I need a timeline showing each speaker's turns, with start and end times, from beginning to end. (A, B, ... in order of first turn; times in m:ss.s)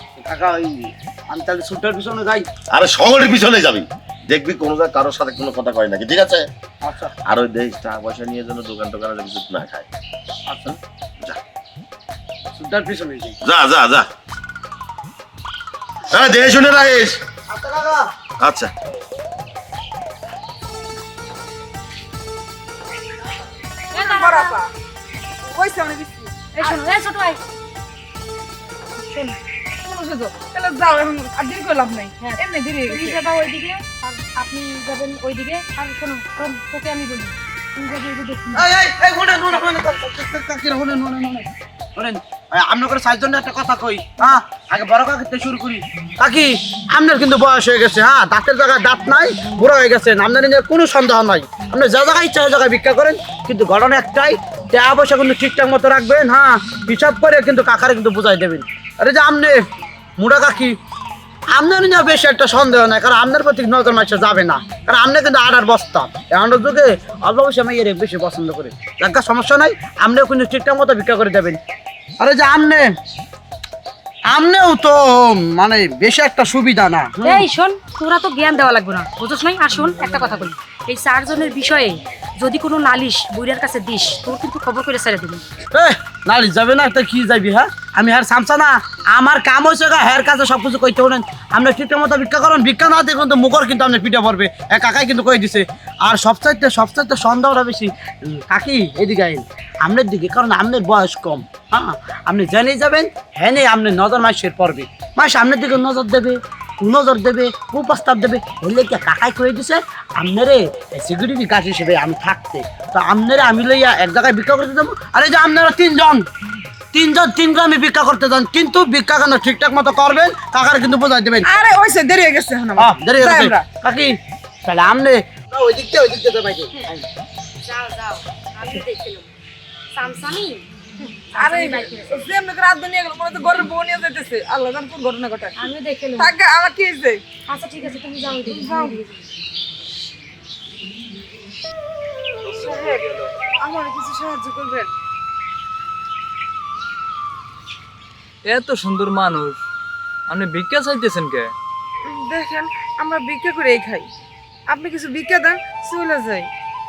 0:00.2-0:02.4 A
0:02.7-0:06.5 B
0:06.8-0:07.1 A
0:07.2-0:09.9 B
0:10.5-0:10.8 A
0:12.5-0:13.4 A
0:13.4-0:14.1 B
0:16.1-0:17.2 B
0:17.5-0:18.0 A
0:18.4-0:18.7 B
0:23.9-0:24.7 C
0:23.9-0:24.6 D
0:25.4-0:26.8 C
0:26.5-0:27.4 D
0:29.0-0:29.3 D
0:29.8-0:33.2 C
0:32.2-0:37.4 D
0:37.8-0:38.5 C
0:38.5-0:59.6 A
1:00.2-1:00.8 A
1:01.5-1:11.6 A
1:12.2-1:12.9 A
1:14.3-1:17.4 A
1:17.2-1:25.5 D
1:25.7-1:56.2 A
1:56.9-2:01.4 A
2:01.4-2:03.6 C
2:02.8-2:07.0 A
2:07.6-2:09.3 D
2:09.9-2:10.7 D
2:11.3-2:12.2 D
2:11.3-2:15.6 C
2:15.6-2:16.3 D
2:16.2-2:17.2 C
2:17.5-2:19.1 D
2:18.4-2:19.1 C
2:22.4-2:23.2 E
2:22.5-2:24.9 C
2:28.4-2:29.6 E
2:30.3-2:31.5 E
2:32.0-2:34.1 C
2:34.7-2:36.5 C